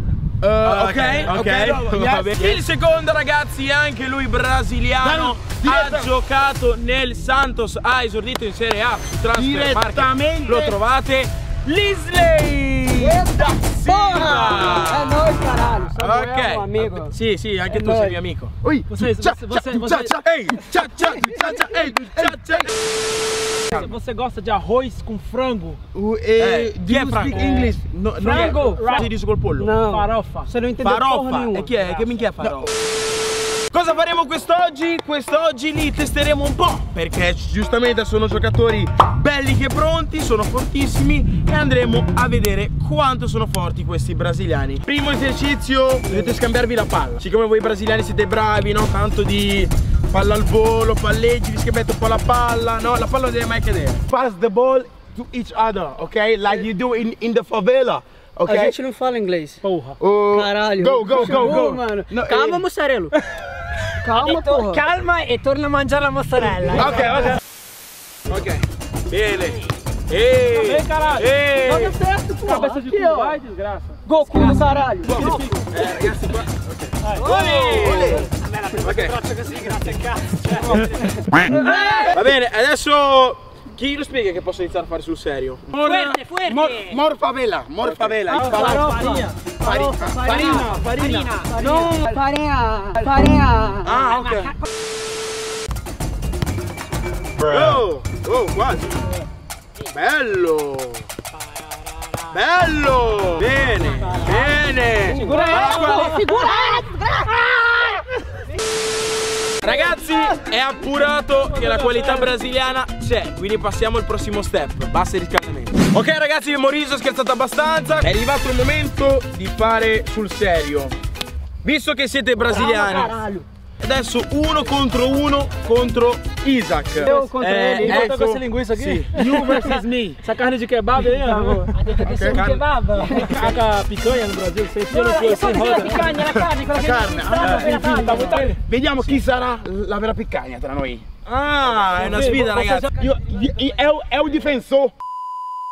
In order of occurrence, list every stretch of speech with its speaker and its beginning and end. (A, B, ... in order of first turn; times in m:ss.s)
0:00.4-0:02.6 A
0:00.6-0:18.5 B
0:05.0-0:06.1 A
0:09.3-0:10.8 A
0:13.0-0:17.1 C
0:17.7-0:18.2 C
0:18.6-0:22.7 A
0:18.9-0:20.2 D
0:20.2-0:22.7 B
0:23.2-0:23.9 A
0:23.7-0:25.8 D
0:25.9-0:28.6 A
0:26.4-0:29.7 B
0:27.3-0:27.6 D
0:28.2-0:29.1 D
0:29.6-0:31.7 C
0:29.8-0:30.5 D
0:30.8-0:32.7 B
0:33.7-0:54.0 B
0:54.1-0:58.8 A
0:58.4-0:59.6 C
0:59.6-1:00.0 D
1:00.0-1:02.6 A
1:00.3-1:03.1 C
1:04.0-1:04.8 C
1:04.1-1:07.0 E
1:06.7-1:07.4 B
1:08.3-1:12.0 B
1:10.5-1:14.0 D
1:12.0-1:13.4 C
1:14.1-1:15.5 C
1:14.4-1:14.7 E
1:15.1-1:15.6 D
1:15.1-1:19.2 B
1:15.8-1:16.1 A
1:17.0-1:18.2 D
1:17.3-1:17.8 E
1:17.6-1:18.3 A
1:19.0-1:21.1 D
1:21.3-1:21.8 C
1:21.6-1:22.0 D
1:21.8-1:22.1 E
1:22.0-1:26.2 B
1:25.7-1:29.0 A
1:25.8-1:27.0 E
1:27.8-1:28.8 B
1:28.3-1:29.3 D
1:28.3-1:32.1 E
1:29.6-1:30.6 A
1:29.7-1:31.3 B
1:31.5-1:34.0 C
1:33.8-1:34.6 B
1:34.0-1:34.6 E
1:37.4-1:39.0 B
1:39.8-1:41.1 B
1:42.3-1:46.4 B
1:45.1-1:46.6 D
1:45.1-1:47.8 C
1:49.6-2:00.9 B
1:51.5-1:52.3 D
2:01.6-2:03.2 B
2:02.5-2:03.4 E
2:03.8-2:10.2 B
2:07.0-2:08.0 C
2:07.8-2:16.2 D
2:09.2-2:09.5 A
2:11.2-2:11.7 C
2:11.8-2:13.4 E
2:12.0-2:12.4 A
2:12.1-2:12.6 B
2:13.2-2:13.6 A
2:14.9-2:18.5 E
2:16.2-2:21.0 A
2:17.3-2:18.6 D
2:17.4-2:18.5 B
2:21.2-2:22.9 B
2:22.0-2:23.1 D
2:23.0-2:24.9 A